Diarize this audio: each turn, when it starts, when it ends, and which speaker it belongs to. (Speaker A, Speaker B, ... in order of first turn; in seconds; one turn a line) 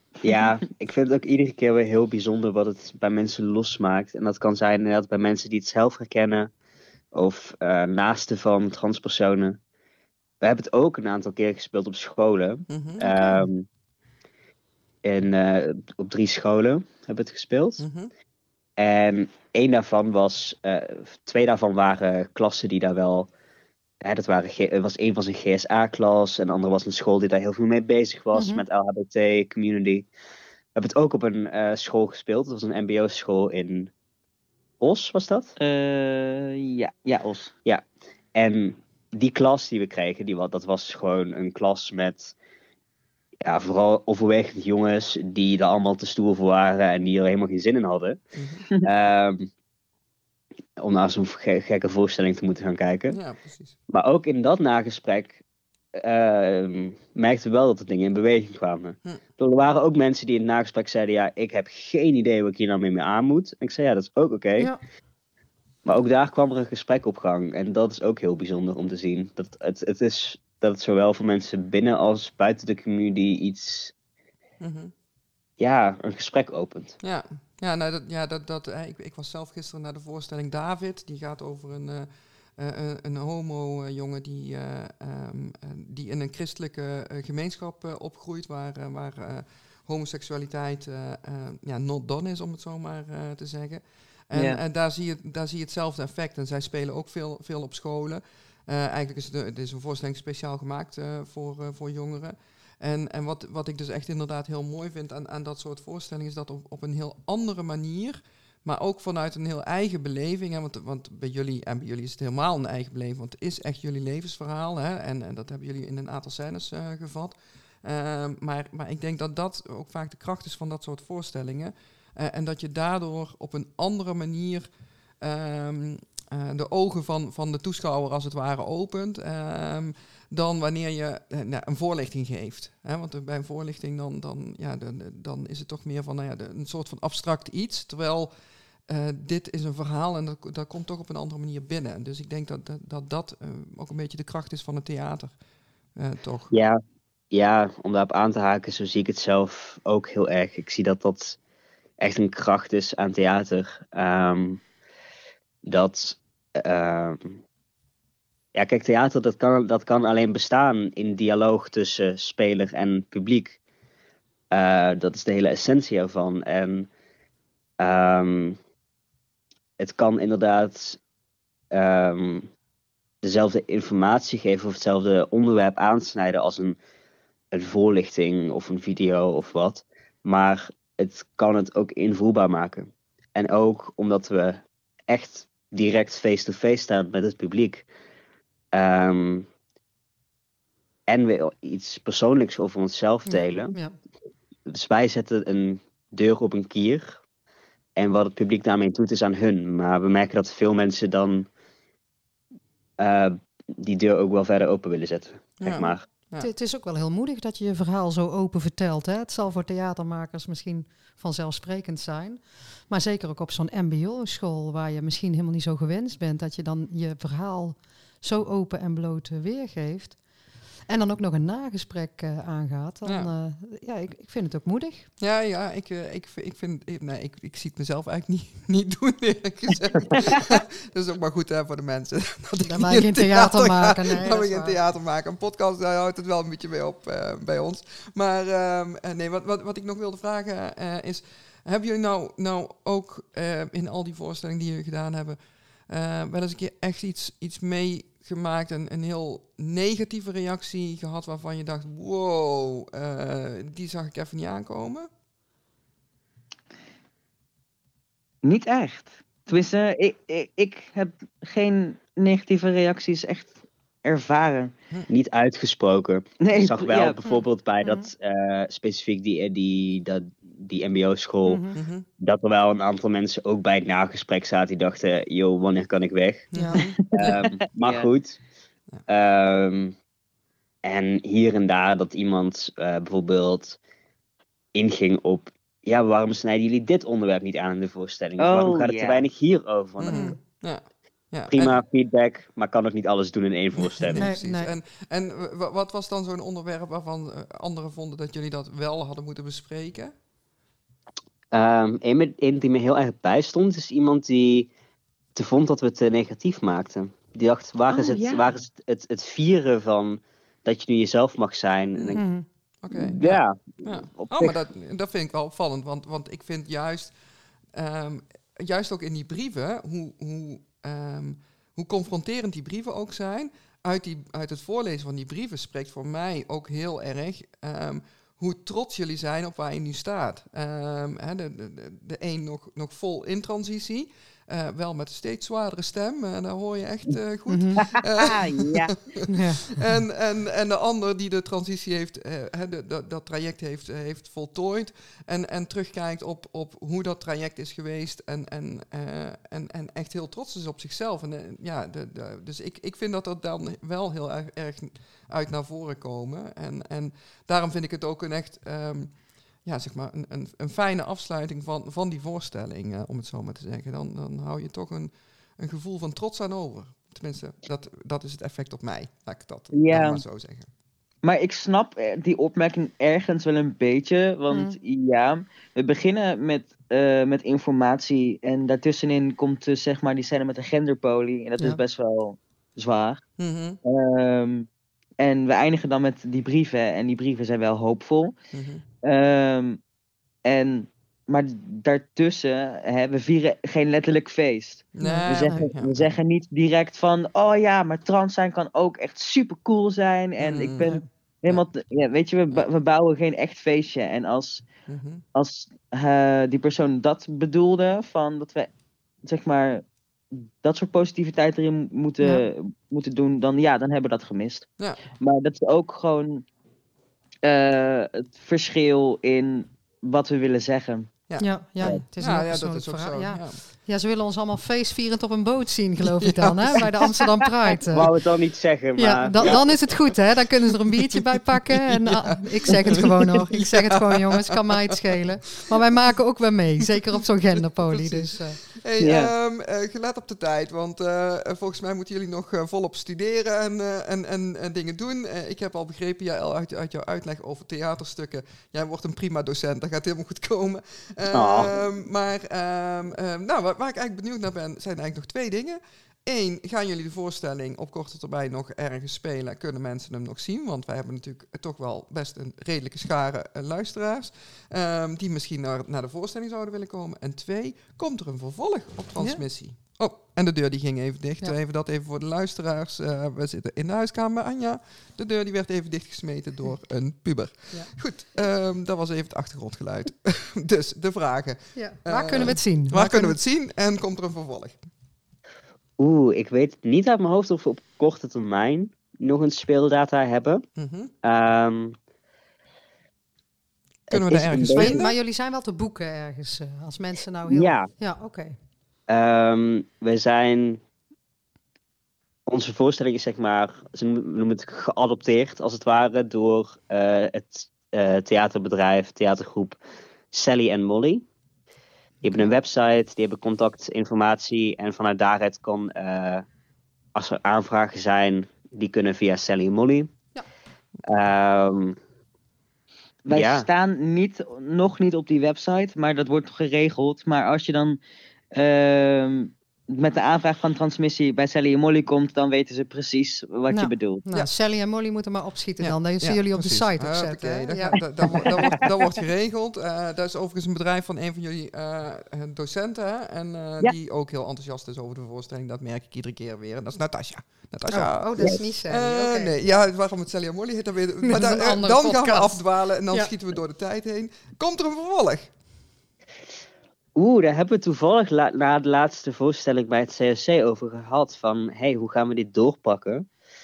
Speaker A: 0.2-6.5
Speaker A: 7.1-9.6
Speaker A: 10.4-13.7
Speaker B: 12.7-13.2
Speaker C: 13.1-13.4
Speaker A: 15.0-17.8
Speaker B: 17.8-18.1
Speaker A: 18.8-23.3
Speaker A: 24.0-30.1
Speaker C: 28.3-28.6
Speaker A: 30.8-33.9
Speaker A: 34.8-35.5
Speaker D: 35.6-37.5
Speaker A: 38.3-42.3
Speaker A: 43.4-48.2
Speaker B: 48.3-48.6
Speaker A: 48.8-49.5
Speaker A: 50.8-53.2
Speaker B: 53.1-53.8
Speaker A: 53.9-55.4
Speaker A: 56.0-64.7
Speaker A: 65.8-73.9
Speaker B: 74.6-74.9
Speaker A: 75.6-77.0
Speaker B: 77.0-124.7
Speaker D: 94.3-94.6
Speaker B: 125.2-138.3
Speaker B: 138.9-145.3
Speaker B: 145.9-146.5
Speaker A: 146.5-146.8
Speaker A: 147.3-151.4
Speaker A: 152.0-154.6
Speaker A: 155.6-157.4
Speaker A: 158.5-163.6
Speaker A: 164.5-166.9
Speaker A: 167.8-168.6
Speaker A: 169.8-171.0
Speaker A: 171.7-172.5
Speaker A: 173.2-176.8
Speaker A: 177.5-187.8
Speaker A: 188.7-189.5
Speaker A: 191.1-193.8
Speaker C: 193.3-193.9
Speaker A: 194.7-197.2
Speaker A: 197.9-201.5
Speaker A: 203.0-206.0
Speaker B: 205.6-206.5
Speaker C: 206.4-220.2
Speaker C: 220.9-225.1
Speaker B: 223.0-223.3
Speaker B: 225.2-255.1
Speaker C: 232.6-234.8
Speaker D: 258.4-263.5
Speaker D: 264.0-264.7
Speaker A: 265.1-271.7
Speaker D: 266.4-267.2
Speaker C: 267.2-268.1
Speaker C: 271.4-271.8
Speaker B: 271.7-272.1
Speaker A: 272.2-276.5
Speaker B: 276.5-277.0
Speaker C: 276.6-276.9
Speaker A: 277.1-278.4
Speaker D: 277.2-278.1
Speaker A: 279.1-280.0
Speaker A: 280.8-283.8
Speaker A: 284.7-290.4
Speaker D: 288.4-289.2
Speaker B: 290.0-291.8
Speaker C: 290.1-290.4
Speaker A: 291.5-294.3
Speaker B: 293.8-300.1
Speaker C: 294.1-294.7
Speaker A: 301.5-304.7
Speaker A: 305.3-312.2
Speaker D: 307.9-308.5
Speaker B: 311.9-312.2
Speaker C: 312.1-312.4
Speaker B: 312.8-317.1
Speaker A: 312.9-314.6
Speaker B: 317.7-370.7
Speaker C: 337.5-337.9
Speaker D: 337.9-338.9
Speaker C: 339.3-339.7
Speaker D: 369.7-370.2
Speaker D: 371.2-383.2
Speaker C: 374.5-374.8
Speaker B: 383.4-383.8
Speaker D: 383.8-384.7
Speaker D: 385.2-388.3
Speaker B: 388.5-388.8
Speaker D: 389.0-389.8
Speaker D: 390.4-404.6
Speaker B: 394.9-396.1
Speaker C: 395.0-395.7
Speaker B: 400.4-400.9
Speaker B: 404.9-405.2
Speaker D: 405.3-408.7
Speaker D: 409.2-409.8
Speaker D: 410.6-414.7
Speaker D: 415.2-416.4
Speaker D: 417.4-421.1
Speaker B: 421.3-423.6
Speaker C: 421.4-428.1
Speaker B: 426.2-426.8
Speaker A: 427.9-429.6
Speaker C: 429.0-438.6
Speaker B: 431.1-434.6
Speaker B: 437.8-484.8
Speaker D: 439.0-439.3
Speaker A: 451.3-451.7
Speaker C: 469.2-469.4
Speaker C: 481.8-483.4
Speaker A: 486.0-490.7
Speaker B: 490.8-491.1
Speaker A: 491.2-491.9
Speaker A: 494.1-495.1
Speaker B: 494.1-495.1
Speaker C: 494.6-498.5
Speaker A: 497.5-497.9
Speaker A: 499.1-500.8
Speaker A: 502.5-509.8
Speaker A: 510.3-511.2
Speaker A: 512.2-516.4
Speaker A: 517.1-520.1
Speaker A: 521.0-522.0
Speaker D: 523.2-528.0
Speaker A: 523.3-523.7
Speaker D: 528.5-534.2
Speaker C: 533.7-538.9
Speaker B: 535.8-555.5
Speaker C: 547.9-549.5
Speaker C: 551.2-553.3
Speaker A: 557.1-563.3